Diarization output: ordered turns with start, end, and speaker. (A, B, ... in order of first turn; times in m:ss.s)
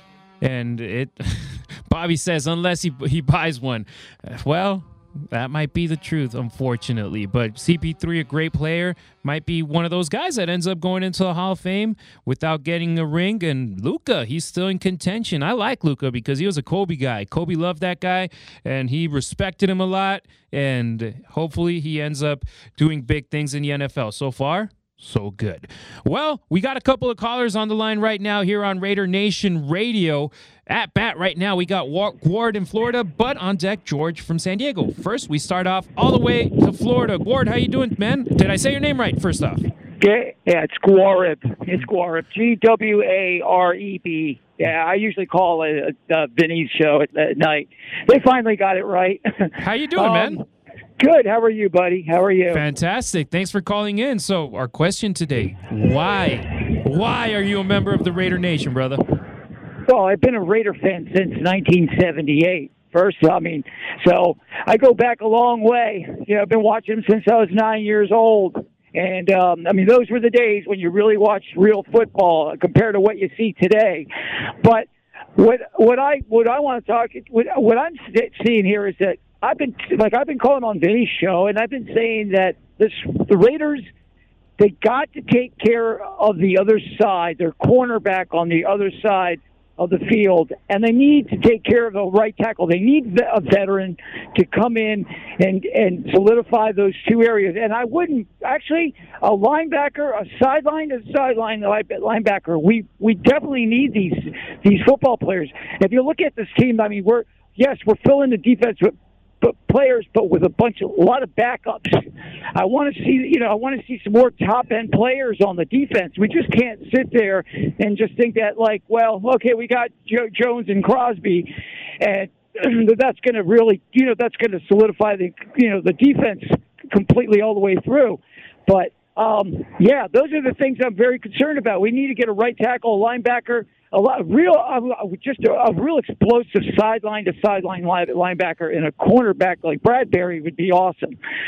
0:00.4-0:39.7 A
0:40.0-0:50.4 B
0:49.6-0:50.4 A
0:51.0-0:52.6 B
0:52.5-0:59.0 A
0:59.9-1:14.1 B
1:14.6-1:23.9 B
1:24.6-2:21.2 B